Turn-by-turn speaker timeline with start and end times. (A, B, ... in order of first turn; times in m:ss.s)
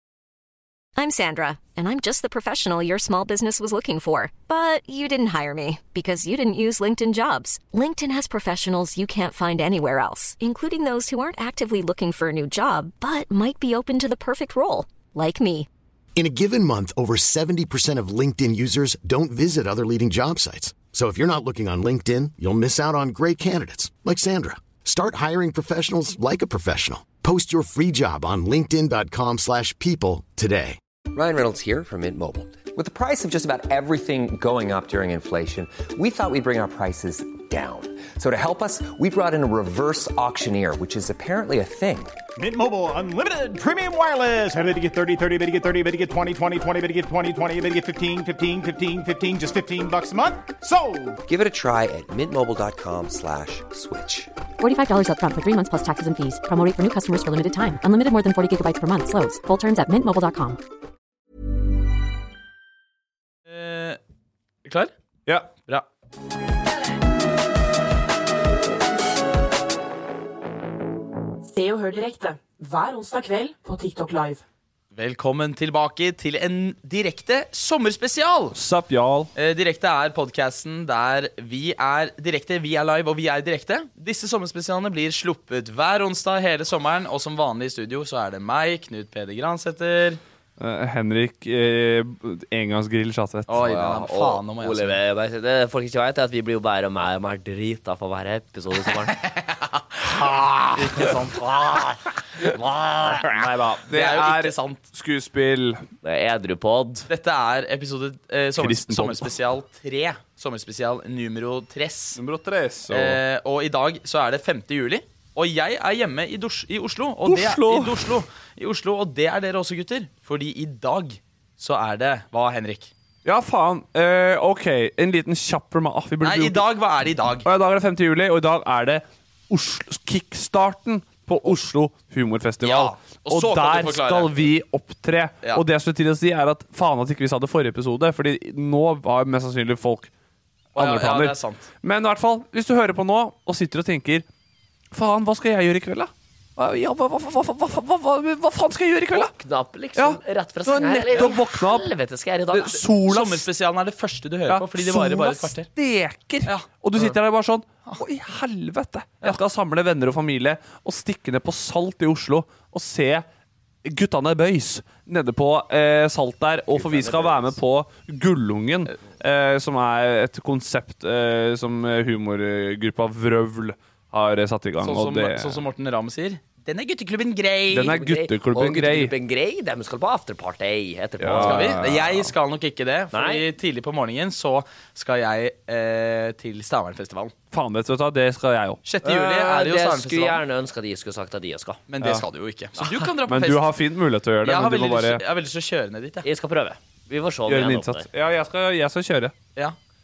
0:01.0-0:15.7 A
0:16.1-0:30.8 B
0:31.1-0:42.1 C
0:42.4-0:51.2 D
0:51.2-0:54.3 C
0:54.6-1:00.6 E
1:03.5-1:04.0 F
1:04.6-1:04.9 F
1:11.4-1:14.4 G
1:14.9-1:18.6 F
1:18.5-1:19.3 H
1:19.3-1:30.2 F
1:30.6-1:33.6 H
1:33.5-1:35.0 F
1:33.6-1:39.2 I
1:40.3-1:41.1 I
1:40.8-1:41.5 F
1:43.0-1:45.8 H
1:43.9-1:44.8 F
1:46.0-1:47.1 I
1:47.1-1:52.2 F
1:48.6-1:49.3 H
1:52.1-1:53.2 H
1:52.9-2:02.9 F
1:57.2-1:58.0 H
2:03.2-2:06.6 H
2:06.2-2:07.5 F
2:07.4-2:20.1 H
2:12.6-2:14.4 F
2:20.8-2:21.6 F
2:20.8-2:24.2 H
2:24.9-2:29.3 H
2:29.1-2:32.8 I
2:29.9-2:31.9 H
2:32.5-2:33.5 H
2:33.0-2:35.7 F
2:34.5-2:43.2 H
2:43.8-2:55.6 H
2:46.8-2:47.5 I
2:54.8-2:57.9 F
2:57.7-2:59.1 H
2:57.7-3:01.8 I
3:01.2-3:02.3 H
3:01.3-3:07.3 F
3:03.1-3:03.4 I
3:07.5-3:08.8 H
3:08.8-3:10.4 F
3:09.0-3:11.8 I
3:11.9-3:13.7 F
3:13.3-3:15.2 H
3:14.4-3:16.2 F
3:16.2-3:18.1 I
3:17.5-3:19.3 H